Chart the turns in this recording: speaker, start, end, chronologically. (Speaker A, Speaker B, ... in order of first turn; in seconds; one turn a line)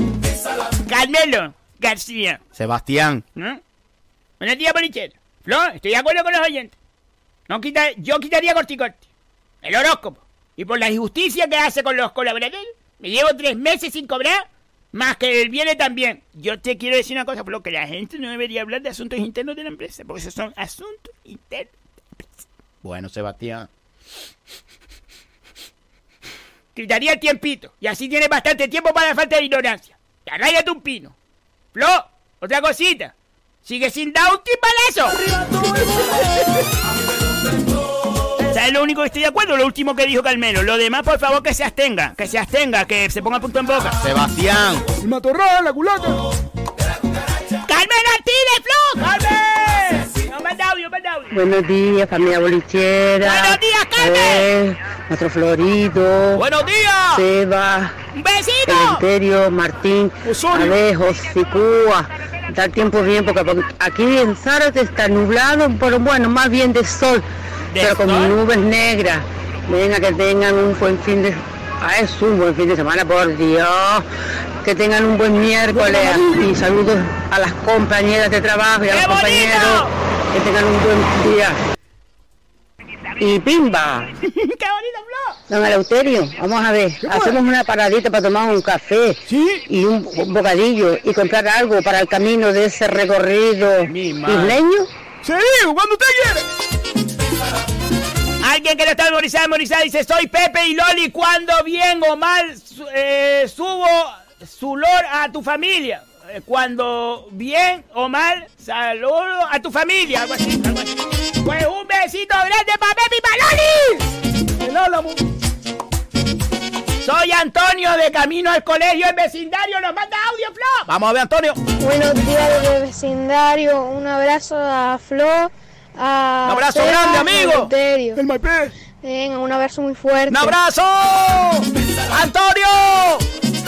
Speaker A: 0.9-2.4
Speaker B: 2.6-3.2
Speaker A: 4.4-6.8
Speaker A: 7.5-9.0
Speaker A: 9.6-22.3
Speaker B: 22.8-23.7
Speaker A: 26.8-31.1
Speaker A: 31.8-33.1
Speaker A: 33.6-35.2
Speaker A: 38.5-44.0
Speaker B: 44.0-44.9
Speaker C: 45.0-46.2
Speaker A: 47.7-51.3
Speaker D: 51.3-56.4
Speaker A: 53.2-54.5
Speaker B: 56.4-57.2
Speaker D: 57.1-58.0
Speaker A: 58.2-59.0
Speaker D: 58.7-67.2
Speaker C: 60.2-60.8
Speaker A: 67.7-68.3
Speaker D: 67.8-74.1
Speaker D: 74.6-81.6
Speaker A: 78.9-79.9
Speaker D: 83.2-84.1
Speaker A: 84.2-85.4
Speaker D: 85.5-94.9
Speaker C: 87.0-87.4
Speaker C: 89.3-89.6
Speaker B: 93.9-94.6
Speaker C: 95.2-96.4
Speaker A: 98.4-114.0
Speaker C: 114.6-115.2
Speaker A: 117.0-120.9
Speaker B: 120.9-121.6
Speaker E: 121.8-128.2
Speaker B: 126.5-127.7
Speaker C: 128.2-128.7
Speaker E: 129.0-130.6
Speaker B: 130.3-133.2